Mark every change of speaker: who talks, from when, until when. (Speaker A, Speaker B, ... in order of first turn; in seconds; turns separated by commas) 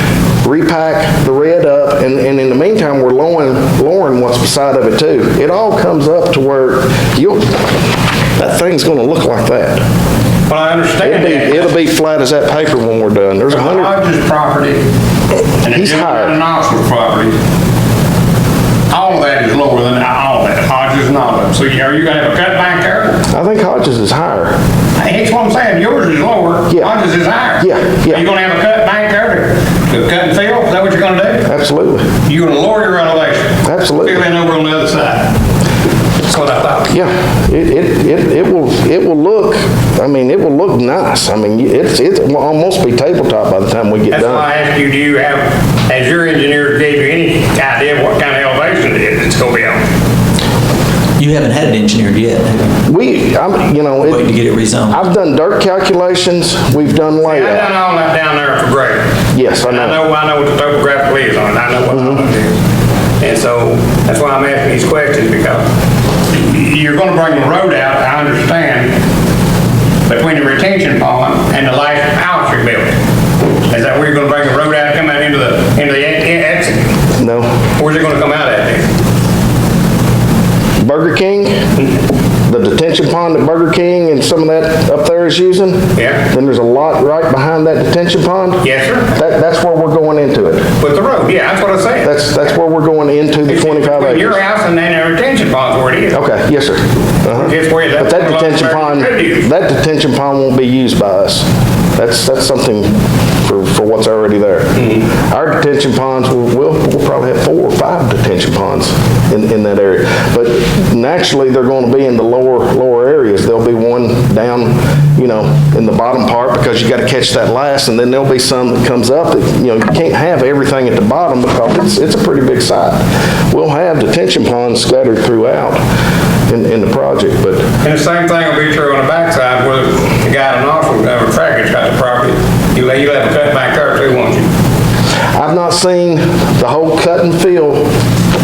Speaker A: 0.4-7.7, Speaker A: 8.4-9.8, Speaker B: 10.5-11.7, Speaker A: 11.0-13.9, Speaker B: 13.5-14.8, Speaker B: 15.6-17.3, Speaker A: 15.7-16.4, Speaker B: 18.9-23.2, Speaker A: 23.3-24.6, Speaker B: 25.0-31.5, Speaker A: 27.6-28.2, Speaker A: 31.5-32.1, Speaker B: 32.2-35.3, Speaker A: 33.6-34.2, Speaker B: 36.2-36.9, Speaker A: 36.9-44.5, Speaker B: 44.1-49.8, Speaker C: 51.2-52.8, Speaker A: 52.9-54.3, Speaker C: 54.0-55.0, Speaker A: 54.9-57.7, Speaker B: 57.2-59.1, Speaker A: 59.3-60.0, Speaker B: 59.7-62.6, Speaker A: 61.9-62.2, Speaker B: 63.2-65.6, Speaker B: 66.3-69.0, Speaker B: 70.1-73.0, Speaker B: 73.7-76.9, Speaker A: 77.2-77.5, Speaker B: 77.8-78.9, Speaker A: 80.8-81.7, Speaker A: 82.5-90.7, Speaker B: 86.0-86.2, Speaker B: 88.6-89.1, Speaker B: 90.8-92.1, Speaker A: 92.0-94.4, Speaker B: 93.5-96.2, Speaker A: 96.1-102.9, Speaker B: 97.3-99.5, Speaker A: 103.4-125.8, Speaker A: 126.5-127.6, Speaker B: 127.8-134.5, Speaker A: 135.3-137.9